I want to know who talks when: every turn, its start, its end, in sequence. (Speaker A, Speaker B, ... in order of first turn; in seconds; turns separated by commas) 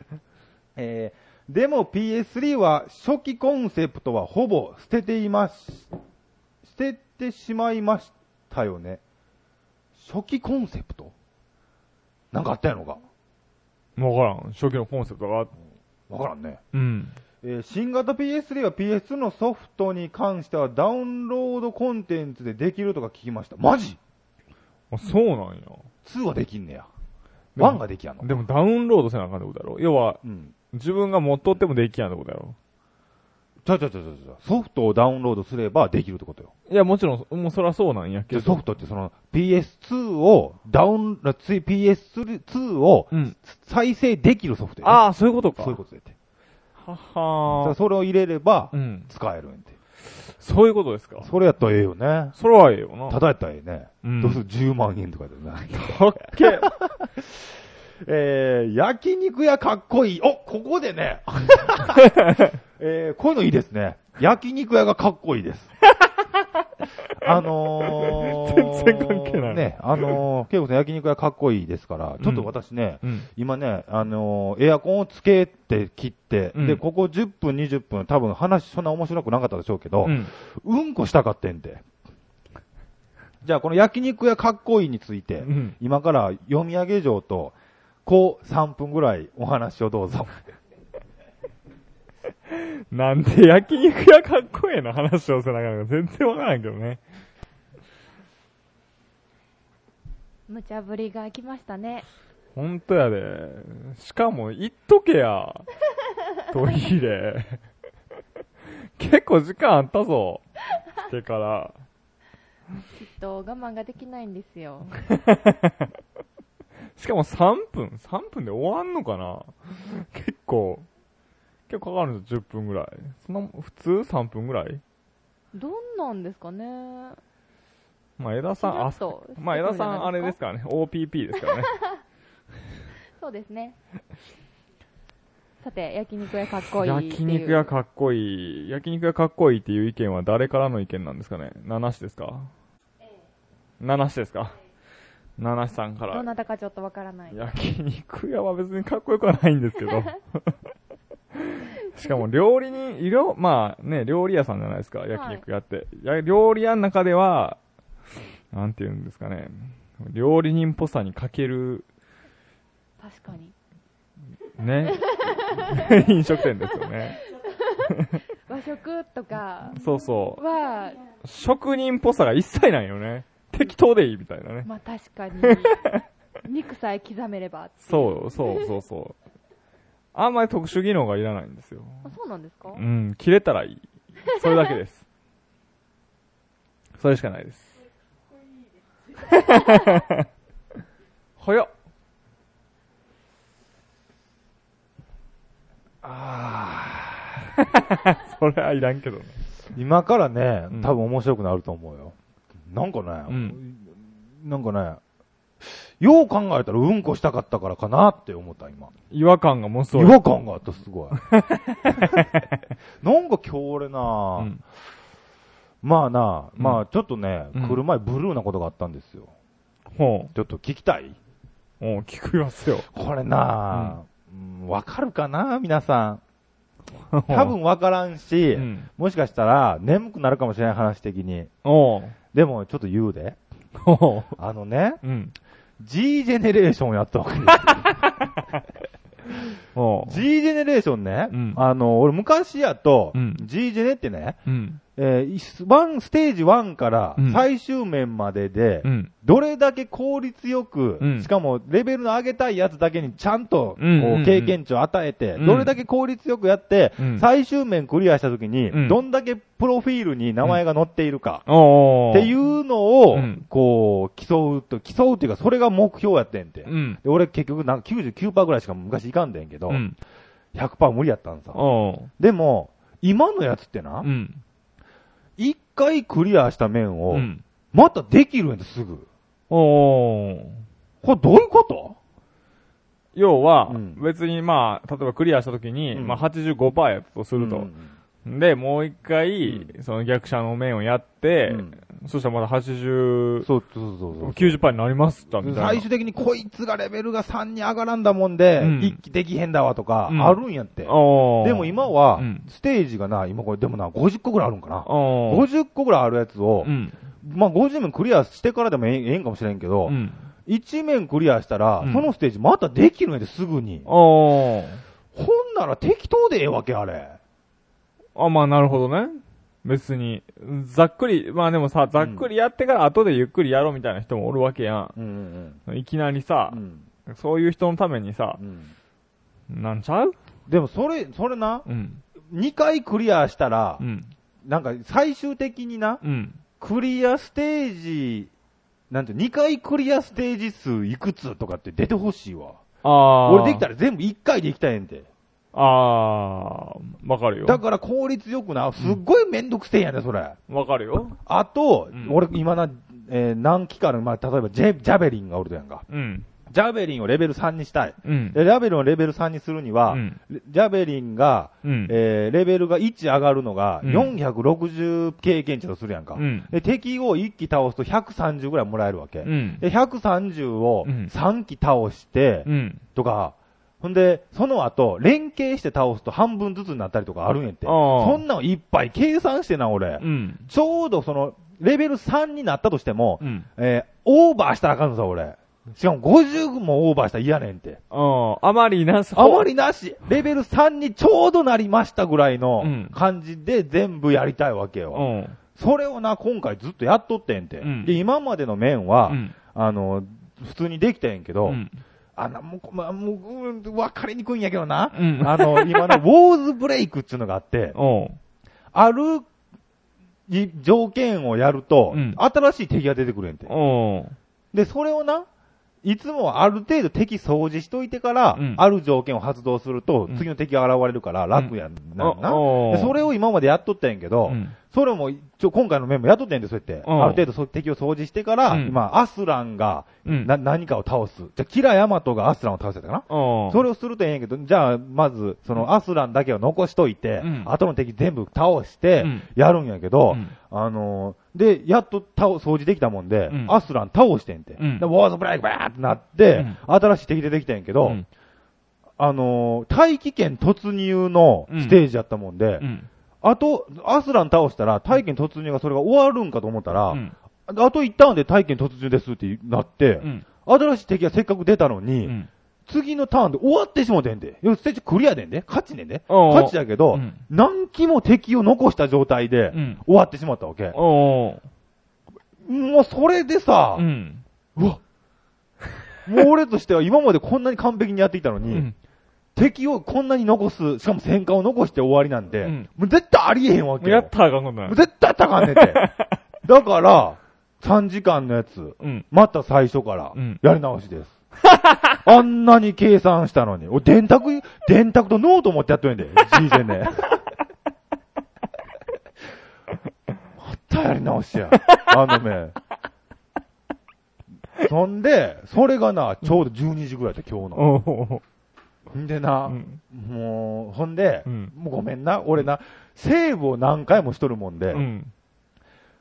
Speaker A: 0.8-5.9, Speaker A: 6.6-9.0, Speaker A: 9.9-11.1, Speaker A: 12.3-13.0, Speaker B: 13.9-15.5, Speaker A: 16.1-16.6, Speaker B: 16.7-17.2, Speaker A: 17.4-24.0, Speaker B: 24.9-25.9, Speaker A: 26.0-26.9, Speaker B: 27.6-30.2, Speaker A: 27.6-28.4, Speaker A: 30.2-30.5, Speaker B: 30.7-32.6, Speaker A: 33.6-36.5, Speaker B: 36.7-38.6, Speaker A: 38.3-45.0, Speaker B: 44.8-45.8, Speaker A: 45.5-46.1, Speaker B: 46.8-47.8, Speaker A: 47.6-49.8, Speaker B: 48.7-49.1, Speaker B: 50.3-51.3, Speaker A: 51.2-52.4, Speaker B: 52.4-53.2, Speaker A: 53.1-55.8, Speaker B: 54.0-54.4, Speaker B: 55.7-56.7, Speaker A: 56.3-57.5, Speaker A: 58.0-62.1, Speaker B: 61.9-62.5, Speaker A: 62.8-65.8, Speaker B: 66.0-66.2, Speaker A: 67.2-81.8, Speaker B: 67.3-70.2, Speaker B: 72.2-72.5, Speaker B: 73.0-73.3, Speaker B: 76.5-76.8, Speaker B: 80.0-80.3, Speaker A: 83.4-90.4, Speaker B: 85.4-85.8, Speaker B: 92.5-97.0, Speaker C: 100.5-102.0, Speaker B: 102.5-105.7, Speaker B: 106.5-107.6, Speaker B: 109.0-110.4, Speaker B: 111.0-111.7, Speaker C: 113.0-115.0, Speaker B: 115.1-115.9, Speaker B: 117.0-120.9, Speaker B: 121.7-124.8, Speaker C: 125.5-127.2, Speaker B: 128.2-131.7, Speaker C: 128.6-130.4, Speaker C: 131.4-132.0, Speaker C: 133.2-133.8, Speaker C: 135.6-137.7, Speaker B: 136.8-142.5, Speaker B: 143.8-144.5, Speaker B: 145.4-146.2, Speaker C: 146.1-147.4, Speaker B: 147.3-150.5, Speaker B: 151.3-157.6, Speaker C: 155.1-155.4, Speaker B: 158.5-161.8, Speaker C: 163.0-163.5, Speaker B: 164.6-167.2, Speaker C: 165.0-165.9, Speaker C: 167.4-167.9, Speaker B: 167.8-168.2, Speaker C: 168.5-169.8, Speaker B: 169.8-170.4, Speaker C: 170.4-171.0, Speaker B: 171.2-174.7, Speaker C: 174.7-175.8, Speaker B: 175.4-176.0, Speaker C: 176.4-178.7, Speaker B: 177.8-179.2, Speaker B: 180.1-182.1, Speaker C: 182.0-182.8, Speaker B: 182.7-185.0, Speaker B: 187.0-187.8, Speaker B: 189.2-190.3, Speaker B: 191.4-191.7, Speaker A: 196.0-197.4, Speaker B: 197.6-199.4, Speaker A: 199.7-202.1, Speaker A: 202.7-205.0, Speaker B: 203.3-203.6, Speaker A: 205.6-208.9, Speaker B: 209.1-210.3, Speaker A: 209.9-211.2, Speaker B: 211.1-212.6, Speaker A: 211.9-212.3, Speaker A: 213.0-214.5, Speaker A: 215.8-219.3, Speaker B: 216.6-216.8, Speaker B: 217.5-217.8, Speaker B: 219.9-220.3, Speaker A: 220.3-221.2, Speaker B: 221.8-222.9, Speaker A: 222.9-226.2, Speaker B: 223.7-223.9, Speaker B: 227.1-227.6, Speaker A: 227.3-231.5, Speaker B: 228.5-228.9, Speaker B: 231.6-232.2, Speaker A: 232.3-233.4, Speaker B: 233.8-234.3, Speaker A: 234.4-235.0, Speaker B: 235.0-235.3, Speaker A: 235.8-238.1, Speaker B: 239.7-240.2, Speaker A: 240.0-244.4, Speaker B: 241.3-241.6, Speaker B: 243.1-243.4, Speaker B: 244.4-244.8, Speaker A: 244.9-261.5, Speaker B: 247.2-247.4, Speaker B: 248.8-249.1, Speaker B: 251.0-251.3, Speaker B: 253.8-254.6, Speaker B: 255.4-255.7, Speaker B: 257.0-257.2, Speaker B: 258.7-259.0, Speaker B: 261.5-262.3, Speaker A: 262.1-269.8, Speaker B: 263.1-263.4, Speaker B: 266.6-267.0, Speaker B: 269.7-270.0, Speaker A: 270.5-271.6, Speaker B: 271.5-272.1, Speaker A: 272.2-274.1, Speaker B: 274.0-274.4, Speaker A: 275.4-279.1, Speaker B: 277.1-277.4, Speaker B: 279.5-280.6, Speaker A: 281.0-281.9, Speaker B: 283.1-287.7, Speaker A: 283.7-284.0, Speaker A: 285.9-286.2, Speaker A: 287.4-287.9, Speaker B: 288.2-293.5, Speaker A: 289.4-289.7, Speaker A: 291.5-291.8, Speaker A: 293.4-294.6, Speaker B: 294.2-295.9, Speaker A: 295.4-313.9, Speaker B: 298.6-299.0, Speaker B: 300.1-302.4, Speaker B: 304.8-305.4, Speaker B: 306.6-307.0, Speaker B: 309.9-310.3, Speaker B: 311.8-312.1, Speaker B: 313.9-314.8, Speaker A: 315.1-317.2, Speaker B: 318.1-324.9, Speaker A: 322.0-322.3, Speaker A: 324.9-325.6, Speaker B: 325.7-328.4, Speaker A: 326.5-326.9, Speaker A: 328.4-328.7, Speaker B: 329.5-330.1, Speaker A: 330.5-331.6, Speaker B: 331.6-332.0, Speaker A: 332.3-333.8, Speaker B: 333.8-334.1, Speaker A: 334.4-336.0, Speaker B: 336.0-336.4, Speaker A: 336.6-338.3, Speaker A: 338.9-342.6, Speaker B: 342.8-343.6, Speaker A: 343.2-345.1, Speaker B: 345.5-347.6, Speaker A: 347.4-350.4, Speaker B: 350.5-351.2, Speaker A: 351.2-355.9, Speaker B: 355.9-356.3, Speaker A: 356.5-387.8, Speaker B: 358.0-358.4, Speaker B: 359.9-360.2, Speaker B: 361.6-361.9, Speaker B: 363.8-364.1, Speaker B: 366.1-366.5, Speaker B: 369.2-369.6, Speaker B: 370.8-371.1, Speaker B: 372.4-372.8, Speaker B: 377.6-378.2, Speaker B: 380.0-380.5, Speaker B: 383.2-383.5, Speaker B: 387.9-389.5, Speaker A: 389.1-401.6, Speaker B: 392.6-392.9, Speaker B: 394.9-395.4, Speaker B: 397.6-397.9, Speaker B: 399.1-399.3, Speaker B: 401.4-401.8, Speaker A: 402.1-407.8, Speaker B: 404.9-406.0, Speaker B: 407.7-408.2, Speaker A: 408.7-409.3, Speaker A: 410.3-413.5, Speaker B: 411.9-412.2, Speaker B: 413.5-414.1, Speaker A: 414.5-415.3, Speaker A: 415.8-448.0, Speaker B: 418.3-418.6, Speaker B: 421.3-423.0, Speaker B: 424.2-424.6, Speaker B: 426.8-427.2, Speaker B: 428.5-428.8, Speaker B: 430.0-430.3, Speaker B: 433.1-433.6, Speaker B: 437.2-437.5, Speaker B: 439.0-439.3, Speaker B: 443.3-443.5, Speaker B: 444.6-444.8, Speaker A: 449.0-452.6, Speaker B: 451.5-451.8, Speaker B: 452.6-452.9, Speaker A: 453.2-462.1, Speaker B: 462.0-462.3, Speaker A: 462.7-470.8, Speaker B: 466.1-467.2, Speaker B: 469.5-469.8, Speaker B: 470.7-471.4, Speaker A: 472.4-473.9, Speaker B: 473.8-474.2, Speaker A: 474.6-474.8, Speaker A: 476.1-478.7, Speaker A: 479.3-484.1, Speaker B: 482.4-482.7, Speaker B: 483.8-484.8, Speaker A: 484.6-485.9, Speaker B: 485.4-486.1, Speaker A: 486.4-491.2, Speaker B: 488.8-489.1, Speaker B: 490.1-490.4, Speaker A: 492.0-497.2, Speaker A: 500.4-502.6, Speaker B: 501.7-501.9, Speaker A: 504.6-507.8, Speaker B: 507.5-508.2, Speaker A: 508.9-514.9, Speaker B: 509.5-509.8, Speaker B: 511.2-511.5, Speaker B: 514.7-515.1